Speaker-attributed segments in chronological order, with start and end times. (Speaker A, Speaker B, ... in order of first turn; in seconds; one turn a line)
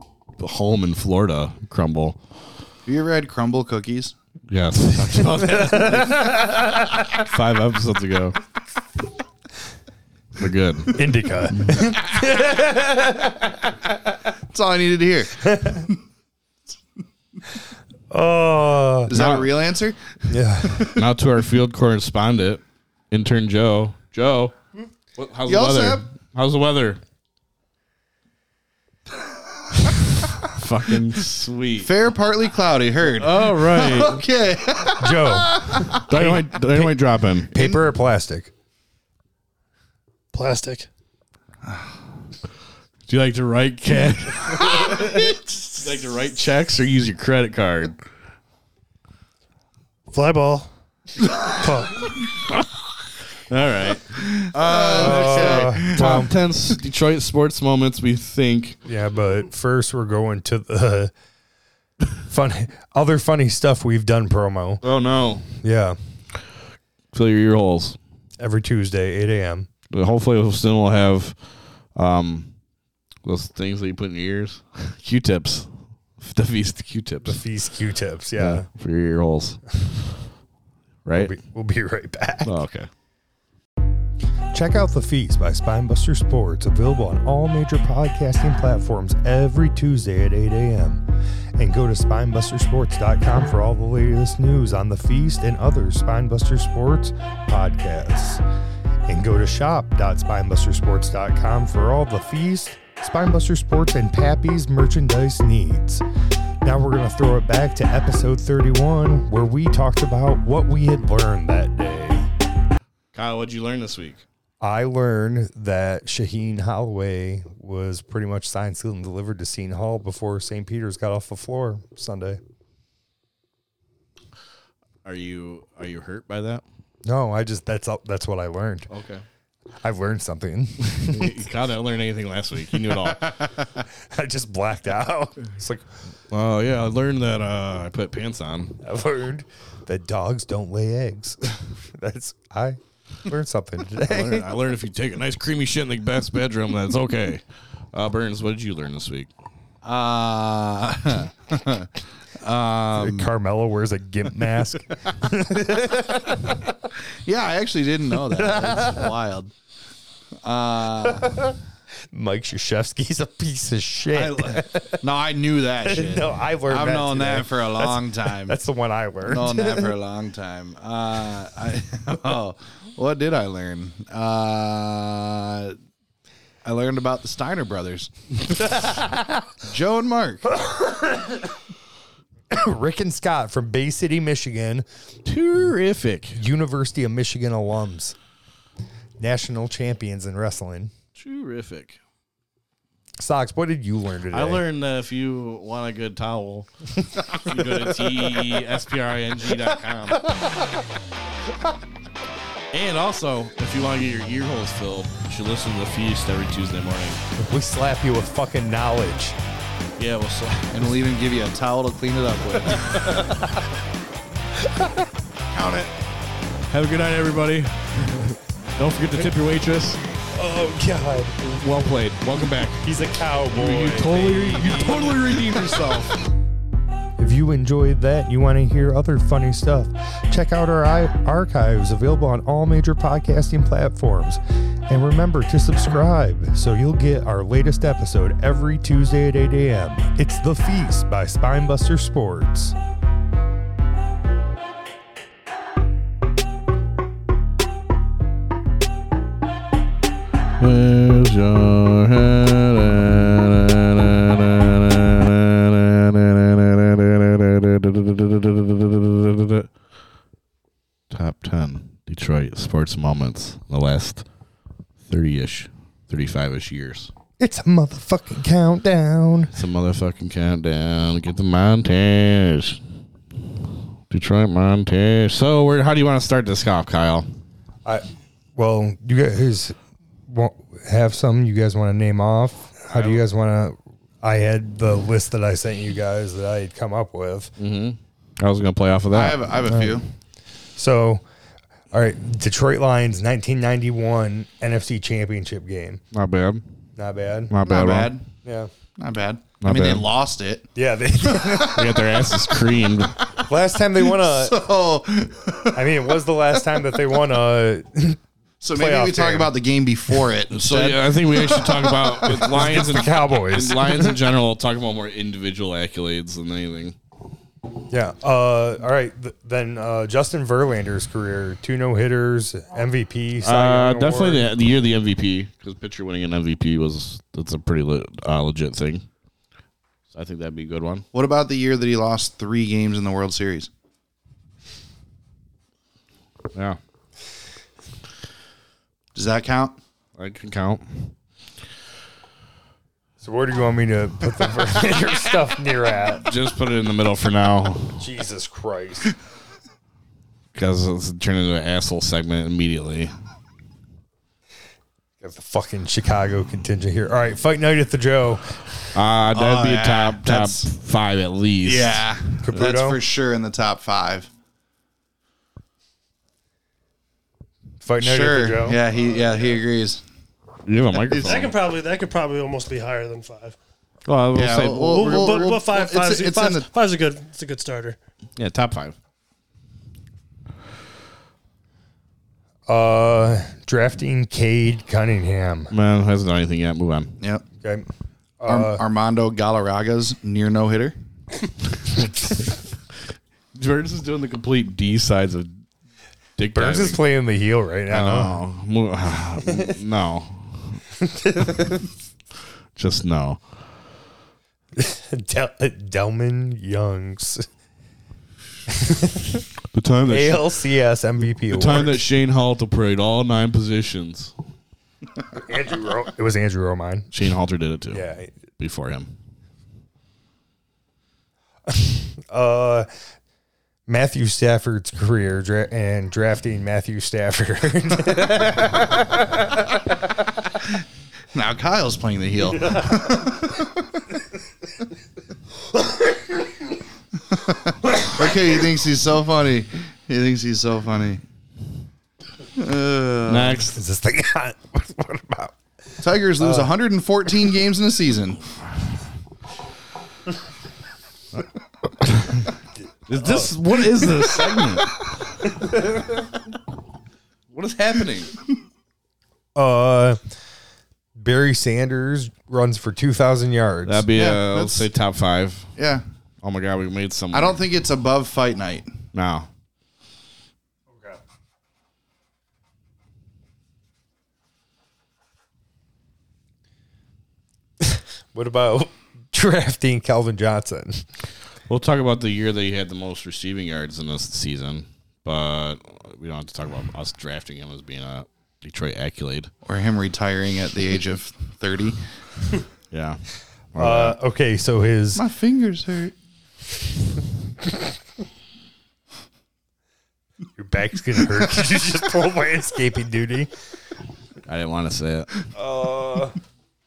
Speaker A: 0.4-2.2
Speaker B: 2.9-4.1
Speaker A: 4.5-8.4
Speaker C: 5.3-7.2
Speaker A: 10.4-12.0
Speaker C: 10.9-13.7
Speaker B: 14.5-15.9
Speaker C: 15.4-15.8
Speaker C: 18.1-19.1
Speaker B: 19.1-20.9
Speaker A: 19.1-19.5
Speaker C: 20.3-20.9
Speaker A: 20.9-24.5
Speaker A: 25.1-27.0
Speaker B: 25.4-26.0
Speaker A: 30.4-31.9
Speaker B: 31.8-36.0
Speaker A: 33.1-34.2
Speaker C: 35.0-36.9
Speaker A: 35.9-37.5
Speaker C: 37.5-38.5
Speaker B: 37.5-37.8
Speaker D: 40.3-40.9
Speaker B: 41.6-41.9
Speaker A: 43.1-48.0
Speaker D: 50.1-50.7
Speaker D: 51.5-52.0
Speaker A: 52.2-52.8
Speaker A: 53.5-58.8
Speaker B: 54.2-56.3
Speaker C: 55.0-56.3
Speaker C: 58.9-61.1
Speaker C: 62.2-64.8
Speaker A: 64.8-65.5
Speaker C: 65.6-66.0
Speaker A: 67.1-68.0
Speaker C: 68.4-69.7
Speaker A: 69.9-71.3
Speaker A: 72.0-72.5
Speaker A: 73.2-77.4
Speaker C: 77.2-78.7
Speaker A: 78.4-79.8
Speaker A: 81.0-81.3
Speaker C: 81.1-82.6
Speaker A: 82.4-82.9
Speaker C: 84.5-91.0
Speaker C: 91.6-98.4
Speaker C: 99.1-106.0
Speaker C: 106.6-112.3
Speaker A: 113.1-114.2
Speaker C: 114.6-122.4
Speaker A: 125.0-126.6
Speaker C: 127.0-128.9
Speaker A: 128.9-129.2
Speaker C: 129.8-131.4
Speaker A: 130.9-133.6
Speaker C: 134.0-135.8
Speaker A: 136.3-138.8
Speaker C: 138.8-144.5
Speaker A: 144.0-149.3
Speaker B: 149.8-153.3
Speaker C: 152.9-156.7
Speaker B: 157.1-159.5
Speaker C: 158.3-159.1
Speaker B: 160.4-161.4
Speaker C: 161.2-161.6
Speaker C: 162.1-165.0
Speaker B: 164.1-168.6
Speaker C: 165.8-169.9
Speaker B: 169.2-175.8
Speaker B: 176.6-178.1
Speaker C: 178.8-179.0
Speaker B: 179.6-180.5
Speaker C: 180.7-181.4
Speaker C: 182.5-184.8
Speaker A: 185.2-186.4
Speaker C: 186.3-188.2
Speaker C: 189.2-190.9
Speaker A: 191.2-192.0
Speaker C: 193.2-194.6
Speaker A: 194.3-196.7
Speaker A: 197.2-200.4
Speaker A: 202.7-207.2
Speaker C: 207.4-209.3
Speaker A: 210.0-210.8
Speaker B: 210.7-213.0
Speaker C: 212.9-213.4
Speaker C: 214.6-215.1
Speaker A: 215.5-215.9
Speaker A: 216.7-220.0
Speaker C: 220.3-221.4
Speaker A: 221.4-222.8
Speaker C: 222.8-225.3
Speaker A: 223.5-226.3
Speaker C: 227.2-242.7
Speaker A: 250.6-259.7
Speaker A: 261.1-264.2
Speaker A: 265.1-267.1
Speaker C: 267.4-269.5
Speaker A: 269.5-272.8
Speaker A: 274.1-277.3
Speaker C: 277.8-279.8
Speaker C: 280.3-287.5
Speaker A: 282.9-283.2
Speaker A: 287.6-289.4
Speaker B: 289.1-290.0
Speaker C: 289.7-290.0
Speaker C: 290.8-291.2
Speaker C: 291.9-296.0
Speaker A: 296.1-296.6
Speaker C: 297.0-297.5
Speaker A: 297.5-298.1
Speaker B: 297.6-298.3
Speaker C: 298.4-298.7
Speaker B: 299.0-300.7
Speaker A: 299.6-300.1
Speaker C: 300.7-302.2
Speaker A: 301.6-303.3
Speaker C: 303.4-304.6
Speaker B: 304.0-306.0
Speaker C: 305.7-308.2
Speaker B: 308.6-312.6
Speaker C: 308.7-309.5
Speaker A: 310.6-316.9
Speaker C: 312.3-314.2
Speaker C: 317.9-324.4
Speaker A: 323.4-329.1
Speaker A: 330.1-331.0
Speaker B: 331.1-333.7
Speaker A: 336.5-336.8
Speaker B: 339.1-339.8
Speaker A: 340.2-341.1
Speaker C: 343.2-346.2
Speaker A: 346.2-348.0
Speaker C: 348.0-349.1
Speaker A: 350.5-353.1
Speaker C: 355.2-358.7
Speaker A: 358.9-362.0
Speaker B: 359.3-360.6
Speaker B: 361.6-364.3
Speaker C: 362.4-363.0
Speaker C: 367.8-368.8
Speaker B: 368.0-370.0
Speaker A: 370.6-371.5
Speaker D: 371.1-373.6
Speaker A: 374.1-375.4
Speaker B: 374.3-376.7
Speaker D: 374.9-378.0
Speaker A: 378.4-378.9
Speaker C: 382.7-385.7
Speaker A: 385.7-387.1
Speaker B: 387.2-387.4
Speaker C: 387.6-387.9
Speaker C: 388.4-388.8
Speaker B: 388.5-390.9
Speaker A: 393.5-395.5
Speaker A: 396.4-397.0
Speaker C: 396.5-398.4
Speaker A: 397.9-400.8
Speaker C: 401.0-401.9
Speaker A: 402.8-403.4
Speaker C: 404.8-407.4
Speaker C: 408.7-409.4
Speaker A: 409.7-410.5
Speaker C: 410.1-412.0
Speaker A: 411.5-414.3
Speaker C: 415.3-417.1
Speaker A: 417.1-418.0
Speaker C: 417.9-418.3
Speaker A: 418.6-419.1
Speaker C: 421.7-422.9
Speaker C: 423.9-429.6
Speaker B: 431.3-434.0
Speaker B: 437.3-441.2
Speaker B: 442.5-443.6
Speaker A: 443.2-443.8
Speaker C: 443.7-445.5
Speaker B: 446.0-448.4
Speaker C: 446.4-446.7
Speaker A: 452.0-452.5
Speaker A: 453.1-455.1
Speaker C: 453.2-453.5
Speaker A: 457.5-458.3
Speaker C: 459.5-460.2
Speaker C: 461.2-464.1
Speaker A: 463.9-465.7
Speaker B: 464.1-464.9
Speaker B: 465.8-466.0
Speaker A: 466.4-467.6
Speaker B: 467.3-469.0
Speaker A: 469.1-469.5
Speaker C: 477.8-481.0
Speaker A: 481.7-489.5
Speaker B: 489.6-492.0
Speaker A: 492.9-494.1
Speaker C: 493.8-495.2
Speaker B: 495.1-496.1
Speaker C: 500.6-503.5
Speaker A: 504.4-505.3
Speaker C: 505.5-506.4